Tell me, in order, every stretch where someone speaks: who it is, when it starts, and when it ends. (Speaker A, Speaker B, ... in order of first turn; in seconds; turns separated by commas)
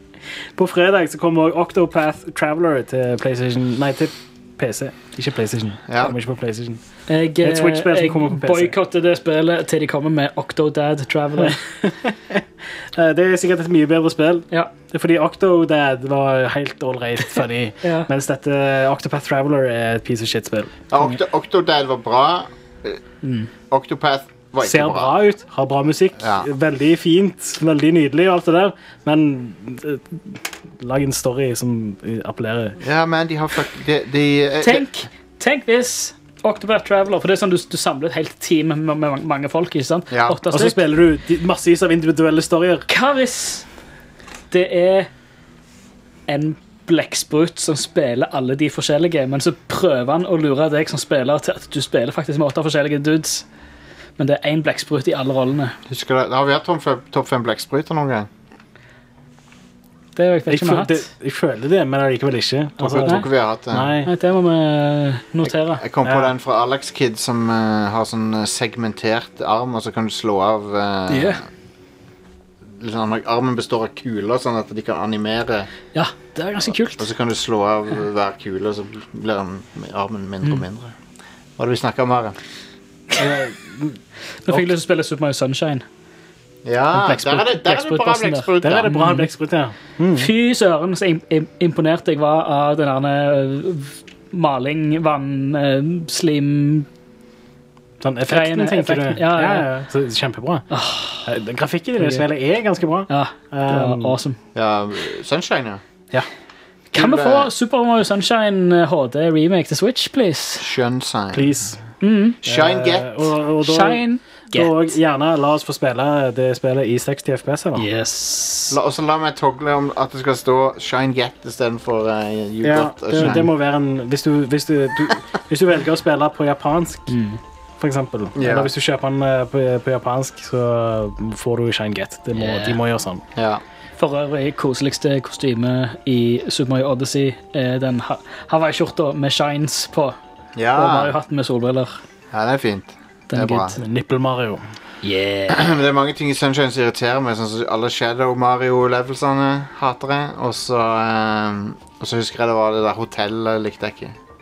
Speaker A: 0.6-6.8, Speaker B: 5.9-6.1, Speaker C: 7.1-11.6, Speaker A: 7.4-8.7, Speaker A: 11.4-12.4, Speaker A: 12.9-20.8, Speaker C: 17.8-18.1, Speaker B: 20.9-23.0, Speaker C: 23.2-23.5, Speaker B: 23.7-25.1, Speaker A: 24.6-32.8, Speaker B: 26.2-26.4, Speaker B: 32.8-34.9, Speaker C: 34.6-40.8, Speaker B: 40.1-40.4, Speaker A: 40.5-42.9, Speaker C: 42.9-43.6, Speaker C: 44.5-45.1, Speaker C: 46.3-53.4, Speaker C: 54.2-55.7, Speaker B: 55.9-58.3, Speaker C: 60.1-61.1, Speaker A: 60.5-64.1, Speaker B: 62.8-63.9, Speaker C: 64.0-65.8, Speaker B: 65.8-71.4, Speaker A: 66.0-66.3, Speaker C: 71.1-71.4, Speaker B: 72.6-75.7, Speaker C: 75.9-77.1, Speaker B: 77.0-80.9, Speaker B: 81.6-82.3, Speaker A: 83.2-84.0, Speaker C: 84.5-85.8, Speaker B: 86.6-88.9, Speaker C: 86.9-89.3, Speaker A: 88.6-90.3, Speaker C: 90.1-96.9, Speaker A: 98.0-100.7, Speaker C: 98.3-99.7, Speaker C: 100.7-101.3, Speaker A: 101.2-104.2, Speaker C: 102.0-102.2, Speaker C: 103.1-104.4, Speaker B: 104.5-105.8, Speaker C: 106.9-110.6, Speaker B: 106.9-107.5, Speaker B: 110.6-111.5, Speaker A: 111.3-111.8, Speaker C: 112.0-112.4, Speaker B: 112.4-113.2, Speaker A: 112.4-117.9, Speaker C: 113.6-115.0, Speaker C: 117.8-118.8, Speaker B: 118.7-123.5, Speaker A: 122.6-127.1, Speaker C: 127.1-127.4, Speaker A: 127.8-133.2, Speaker B: 128.3-128.7, Speaker C: 132.3-132.8, Speaker B: 133.3-133.6, Speaker C: 134.0-140.2, Speaker B: 140.6-141.1, Speaker C: 140.7-142.0, Speaker B: 142.3-143.7, Speaker C: 143.3-143.8, Speaker A: 143.8-144.6, Speaker C: 145.0-145.7, Speaker B: 145.5-154.2